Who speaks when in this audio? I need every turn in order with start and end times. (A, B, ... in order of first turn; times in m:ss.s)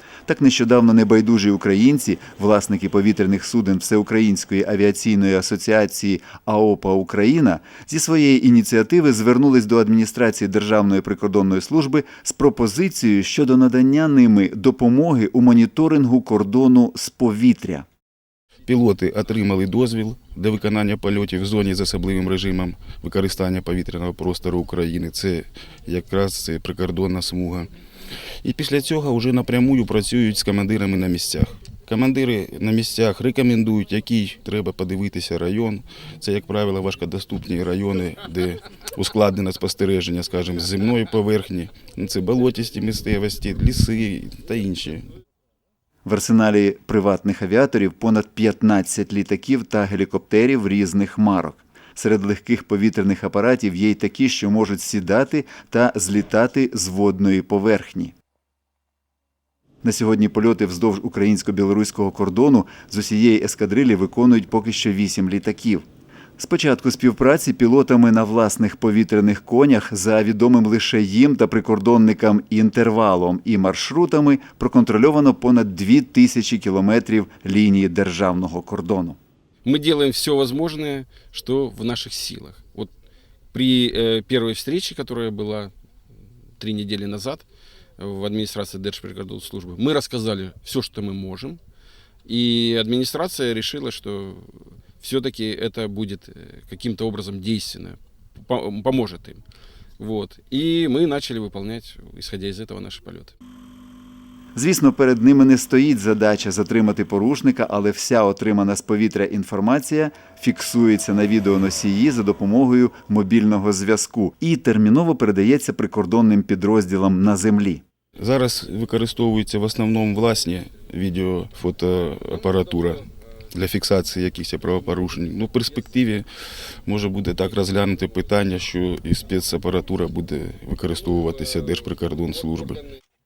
0:00.2-0:17.8 A
0:18.7-0:27.7 B
0:28.4-0:45.0 B
0:46.0-0:58.1 A
0:59.8-1:05.8 A
1:06.4-1:19.2 A
1:19.6-1:22.9 C
1:23.5-1:25.7 C
1:26.6-1:27.4 C
1:28.0-1:31.6 C
1:32.2-1:39.4 C
1:40.0-1:43.3 C
1:44.6-1:57.8 A
1:58.2-2:06.2 B
2:06.9-2:12.8 B